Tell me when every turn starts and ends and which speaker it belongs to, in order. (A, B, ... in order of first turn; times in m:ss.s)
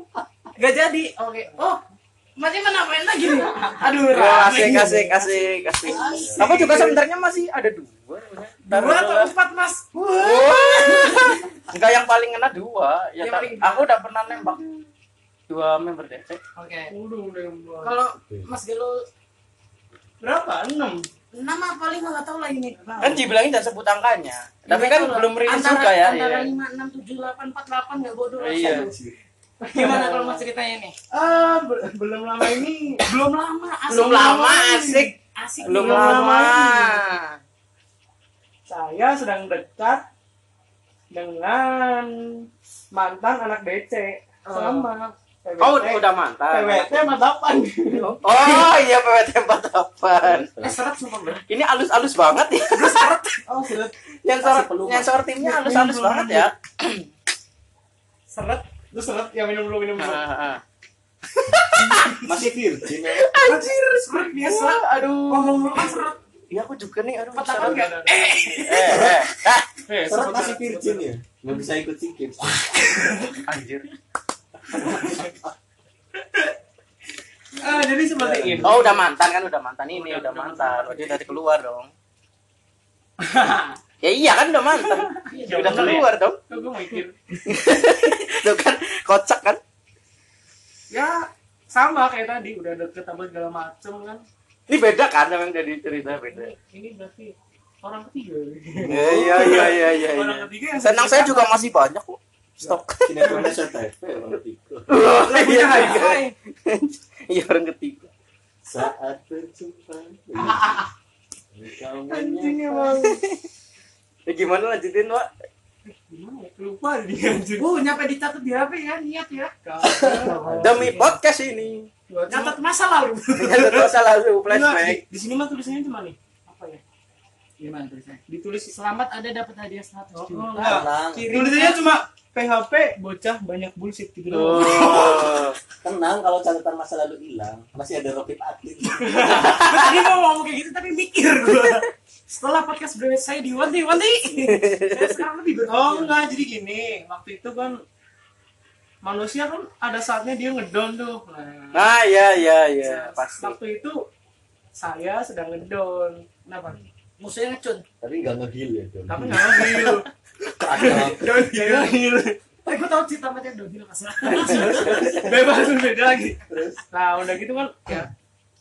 0:00.6-0:01.8 A
0:02.4-0:06.9 A
0:04.1-0:09.3 B
0:04.4-0:04.9 C
0:06.0-0:06.4 D
0:06.1-0:06.9 C
0:08.6-0:11.5 A
0:10.1-0:14.7 B
0:13.2-0:13.9 A
0:15.5-0:16.4 B
0:16.6-0:16.9 A
0:16.9-0:18.0 C
0:17.8-0:19.0 A
0:18.2-0:18.5 D
0:20.2-0:21.1 C
0:21.3-0:23.2 A
0:23.0-0:26.5 B
0:24.7-0:28.9 A
0:28.4-0:28.9 B
0:28.6-0:29.2 D
0:29.6-0:30.4 C
0:29.7-0:31.0 A
0:31.1-0:33.2 C
0:33.0-0:37.0 A
0:33.9-0:35.1 B
0:34.5-0:35.1 C
0:35.6-0:36.8 C
0:35.6-0:37.4 B
0:38.6-0:40.0 C
0:41.1-0:48.7 C
0:44.4-0:44.9 A
0:45.6-0:47.2 B
0:47.9-0:50.5 B
0:50.2-0:50.8 D
0:50.6-0:51.4 A
0:51.5-0:53.2 B
0:52.7-0:53.4 A
0:53.4-0:53.9 C
0:54.2-0:57.1 B
0:54.4-0:55.1 D
0:55.4-0:56.5 C
0:58.3-0:58.7 A
0:58.9-1:00.2 C
1:00.0-1:00.6 B
1:01.6-1:02.3 B
1:01.6-1:02.4 C
1:02.2-1:03.3 D
1:03.0-1:07.9 B
1:03.4-1:04.3 C
1:03.4-1:06.2 A
1:05.7-1:06.0 C
1:07.3-1:09.1 A
1:07.5-1:08.5 C
1:08.5-1:09.7 B
1:08.8-1:09.3 D
1:09.9-1:11.1 C
1:10.0-1:13.1 D
1:12.9-1:13.4 C
1:13.4-1:13.9 B
1:14.7-1:15.3 C
1:14.8-1:15.5 D
1:17.6-1:19.1 C
1:18.1-1:18.9 D
1:18.6-1:21.9 B
1:19.9-1:21.4 C
1:23.2-1:23.8 C
1:24.0-1:26.4 B
1:24.8-1:27.4 C
1:25.3-1:26.1 A
1:27.5-1:29.6 B
1:30.9-1:34.2 C
1:34.7-1:36.5 B
1:36.1-1:41.6 C
1:38.8-1:39.7 D
1:38.9-1:43.5 B
1:42.6-1:43.6 C
1:43.0-1:45.0 D
1:44.9-1:48.1 B
1:45.2-1:46.3 C
1:45.6-1:46.1 A
1:48.6-1:50.8 D
1:50.4-1:50.8 A
1:51.5-1:52.8 D
1:52.1-1:53.2 C
1:52.9-1:53.4 B
1:54.3-1:55.3 B
1:55.8-1:57.7 C
1:57.6-2:01.2 A
1:59.6-2:00.5 C
1:59.8-2:01.0 D
2:00.6-2:01.9 B
2:02.1-2:02.6 C
2:02.3-2:03.8 A
2:03.4-2:05.0 B
2:03.5-2:03.9 C
2:04.5-2:06.8 C
2:07.6-2:11.9 A
2:08.3-2:08.8 C
2:10.2-2:15.5 C
2:10.6-2:11.7 D
2:14.3-2:15.6 B
2:15.8-2:19.6 D
2:19.0-2:19.9 C
2:19.3-2:26.2 A
2:24.4-2:25.2 B
2:25.7-2:27.8 C
2:29.0-2:31.9 C
2:31.7-2:33.6 B
2:32.8-2:33.1 A
2:33.4-2:34.1 C
2:34.8-2:36.3 C
2:36.4-2:37.8 A
2:38.0-2:40.0 D
2:39.1-2:40.1 C
2:40.6-2:41.7 D
2:40.6-2:42.4 C
2:42.6-2:45.0 A
2:44.3-2:48.1 C
2:44.4-2:45.6 D
2:46.4-2:46.8 D